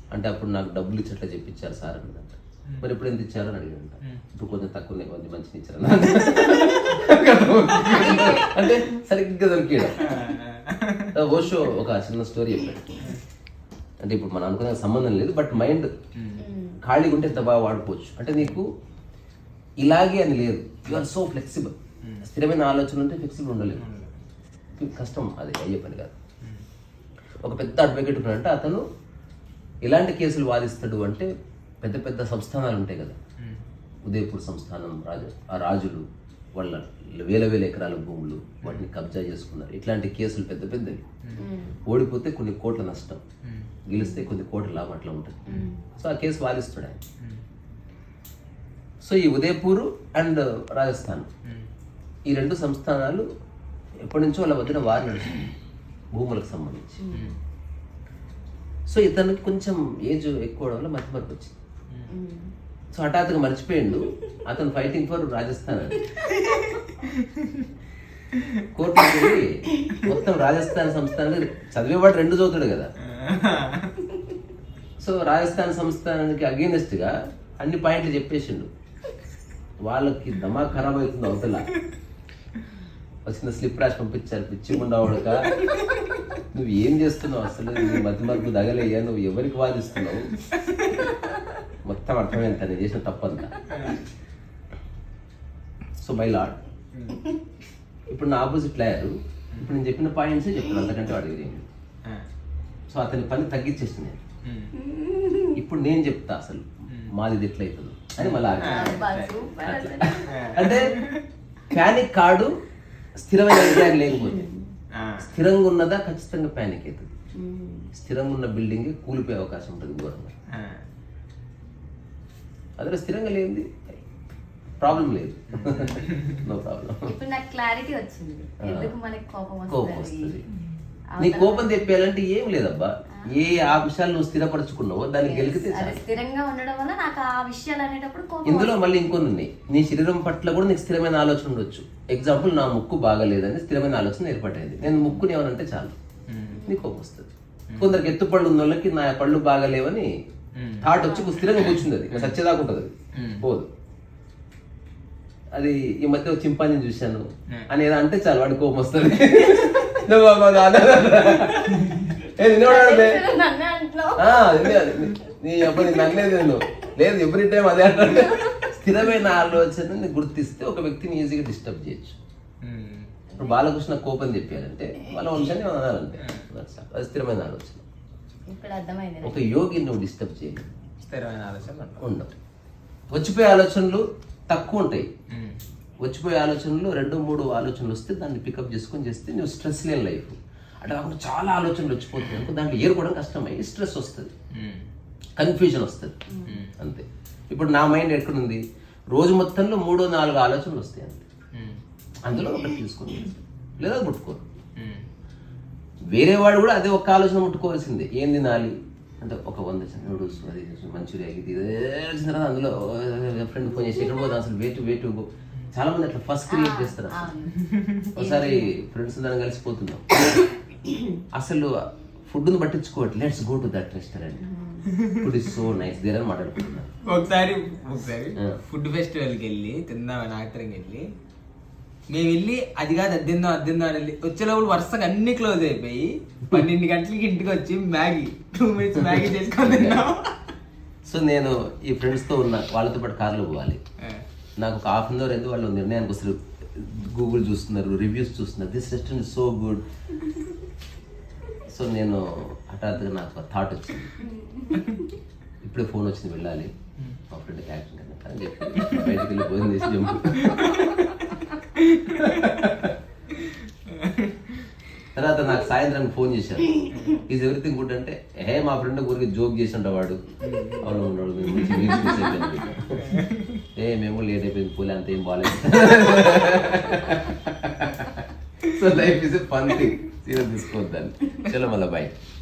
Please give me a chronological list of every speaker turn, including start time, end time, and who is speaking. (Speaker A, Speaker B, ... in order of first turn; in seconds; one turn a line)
Speaker A: 0.1-10.0
Speaker B: 8.0-8.5
Speaker C: 9.9-11.2
Speaker A: 11.1-13.0
Speaker A: 14.0-15.9
Speaker C: 15.5-16.5
Speaker B: 16.4-16.8
Speaker A: 16.8-18.7
Speaker A: 19.8-23.8
Speaker C: 23.8-24.2
Speaker A: 24.8-26.1
Speaker A: 27.4-28.8
Speaker A: 29.8-31.3
Speaker A: 31.8-33.1
Speaker C: 33.4-33.6
Speaker A: 34.0-36.0
Speaker A: 36.5-41.0
Speaker C: 38.6-38.9
Speaker B: 41.4-41.8
Speaker A: 41.9-43.2
Speaker C: 43.4-43.7
Speaker A: 43.9-47.0
Speaker B: 43.9-44.3
Speaker B: 45.5-45.8
Speaker A: 49.0-51.3
Speaker A: 52.3-53.2
Speaker A: 54.0-55.5
Speaker A: 56.1-57.0
Speaker B: 57.0-57.3
Speaker C: 57.1-57.4
Speaker A: 58.9-61.5
Speaker B: 62.1-62.5
Speaker A: 62.9-66.1
Speaker B: 66.2-66.6
Speaker C: 66.5-67.7
Speaker A: 68.7-72.9
Speaker C: 73.0-74.0
Speaker A: 75.0-78.7
Speaker A: 79.8-81.7
Speaker A: 83.2-85.7
Speaker A: 86.5-90.3
Speaker A: 91.8-93.6
Speaker C: 93.7-94.0
Speaker A: 96.0-96.6
Speaker C: 96.9-97.2
Speaker A: 98.1-101.7
Speaker A: 102.9-104.2
Speaker C: 104.4-104.8
Speaker B: 104.8-105.5
Speaker A: 105.5-109.0
Speaker C: 108.2-109.5
Speaker B: 108.6-110.5
Speaker A: 109.6-110.9
Speaker C: 110.3-111.2
Speaker A: 111.7-112.5
Speaker A: 113.2-114.5
Speaker B: 114.1-114.7
Speaker C: 114.9-115.3
Speaker A: 115.2-117.1
Speaker B: 117.3-117.9
Speaker A: 117.9-120.3
Speaker C: 120.5-120.8
Speaker A: 122.8-123.7
Speaker A: 124.8-127.1
Speaker C: 125.5-126.4
Speaker B: 127.1-130.3
Speaker A: 128.6-128.9
Speaker A: 129.7-130.4
Speaker B: 131.1-131.9
Speaker A: 131.2-136.1
Speaker B: 133.2-133.8
Speaker B: 135.2-138.9
Speaker A: 138.4-145.9
Speaker C: 144.8-145.2
Speaker C: 146.3-146.7
Speaker A: 146.7-150.1
Speaker C: 147.7-148.0
Speaker C: 150.5-150.9
Speaker A: 150.8-153.7
Speaker B: 151.0-151.4
Speaker C: 151.4-152.4
Speaker C: 153.1-153.4
Speaker A: 155.5-163.2
Speaker B: 162.5-166.8
Speaker A: 164.2-172.2
Speaker C: 172.6-173.1
Speaker A: 173.4-177.8
Speaker C: 176.2-176.4
Speaker B: 178.5-179.5
Speaker A: 179.2-180.7
Speaker C: 181.0-182.0
Speaker A: 182.0-182.3
Speaker A: 183.1-185.1
Speaker C: 185.3-185.6
Speaker A: 186.0-194.3
Speaker C: 192.2-192.5
Speaker C: 194.5-194.9
Speaker A: 195.4-196.2
Speaker B: 196.3-196.7
Speaker C: 196.5-196.8
Speaker A: 196.8-201.2
Speaker C: 201.5-201.8
Speaker A: 202.2-204.4
Speaker C: 204.8-205.1
Speaker A: 206.1-217.3
Speaker B: 216.5-218.7
Speaker C: 217.6-218.0
Speaker A: 218.2-220.4
Speaker B: 220.9-221.2
Speaker A: 221.3-221.7
Speaker A: 222.3-224.4
Speaker B: 224.4-224.9
Speaker C: 224.9-225.7
Speaker A: 225.2-226.9
Speaker C: 227.0-231.1
Speaker C: 232.1-240.4
Speaker A: 239.0-240.0
Speaker A: 241.1-243.8
Speaker A: 244.6-249.8
Speaker A: 251.7-254.2
Speaker B: 254.2-255.0
Speaker A: 255.6-256.7
Speaker A: 257.3-261.4
Speaker C: 258.7-259.2
Speaker C: 261.8-262.6
Speaker A: 262.1-262.9
Speaker C: 263.4-264.6
Speaker A: 265.1-270.2
Speaker C: 266.9-267.2
Speaker C: 270.4-272.2
Speaker A: 270.8-282.1
Speaker C: 273.0-273.6